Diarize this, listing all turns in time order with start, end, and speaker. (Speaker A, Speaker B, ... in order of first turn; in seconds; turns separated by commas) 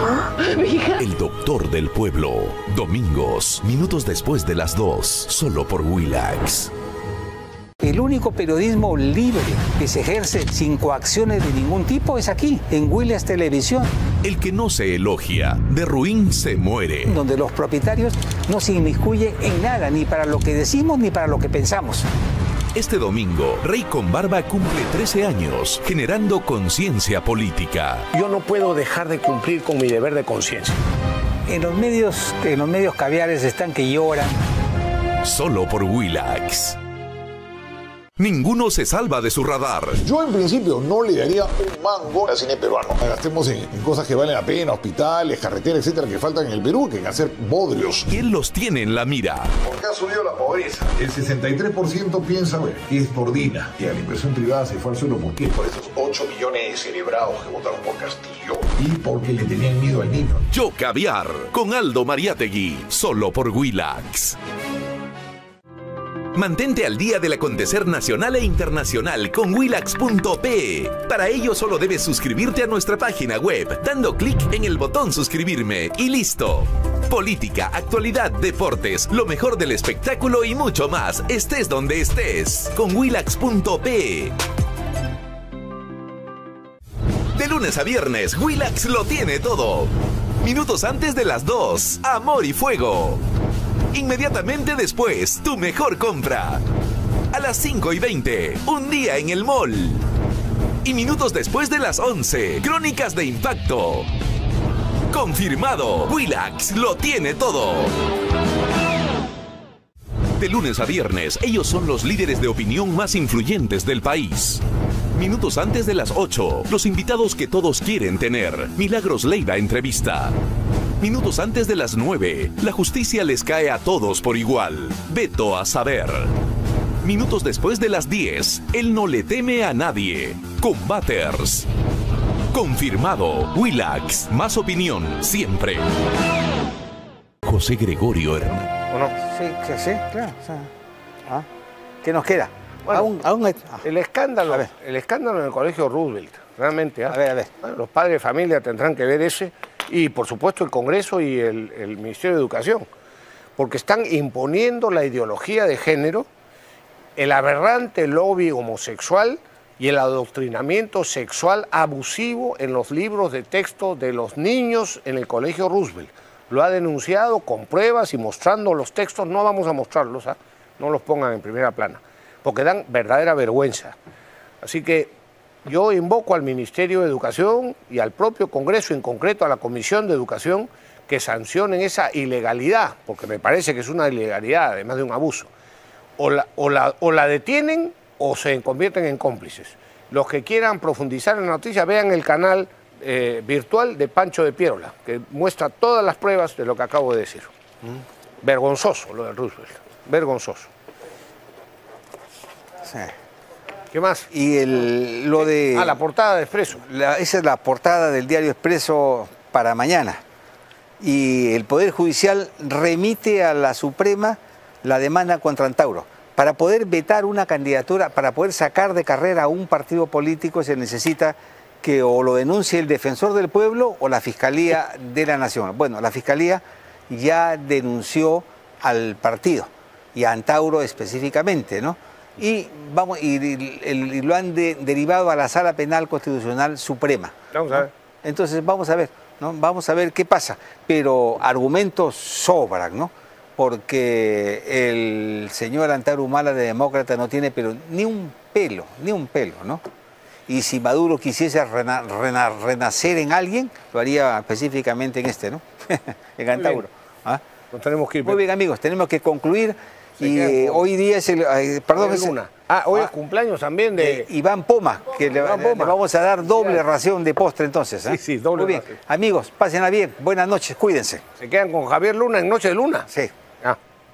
Speaker A: 0.6-6.7, Speaker B: 7.8-13.9, Speaker A: 14.2-17.2, Speaker B: 17.1-22.1, Speaker A: 22.7-28.1, Speaker C: 28.1-30.8, Speaker B: 31.5-34.3, Speaker A: 35.2-36.8, Speaker A: 38.2-40.0, Speaker D: 40.0-48.1, Speaker A: 48.1-49.5, Speaker D: 49.6-60.5, Speaker A: 60.5-64.4, Speaker A: 66.3-84.4, Speaker A: 87.3-93.2, Speaker A: 93.9-96.6, Speaker A: 97.3-100.1, Speaker A: 100.8-104.1, Speaker A: 105.1-107.9, Speaker A: 110.4-114.6, Speaker A: 115.2-120.4, Speaker A: 121.0-126.3, Speaker A: 127.0-131.7, Speaker A: 132.5-135.9, Speaker A: 137.4-138.7, Speaker C: 138.9-139.1, Speaker B: 139.1-140.7, Speaker B: 142.0-143.8, Speaker C: 143.8-152.9, Speaker B: 147.1-147.5, Speaker C: 153.6-156.3, Speaker C: 157.2-174.0, Speaker C: 174.6-175.1, Speaker C: 175.7-185.5, Speaker C: 186.2-200.7, Speaker B: 202.8-203.1, Speaker C: 203.9-204.3, Speaker B: 204.3-206.0, Speaker C: 205.4-206.8, Speaker B: 206.8-210.2, Speaker B: 211.0-249.8, Speaker C: 237.5-237.9, Speaker B: 250.5-257.4, Speaker C: 256.6-256.8, Speaker C: 257.7-258.4, Speaker B: 258.2-262.4, Speaker C: 260.2-260.9, Speaker C: 261.9-264.3, Speaker B: 264.0-271.2, Speaker C: 265.3-266.8, Speaker C: 268.1-269.0, Speaker C: 271.4-273.1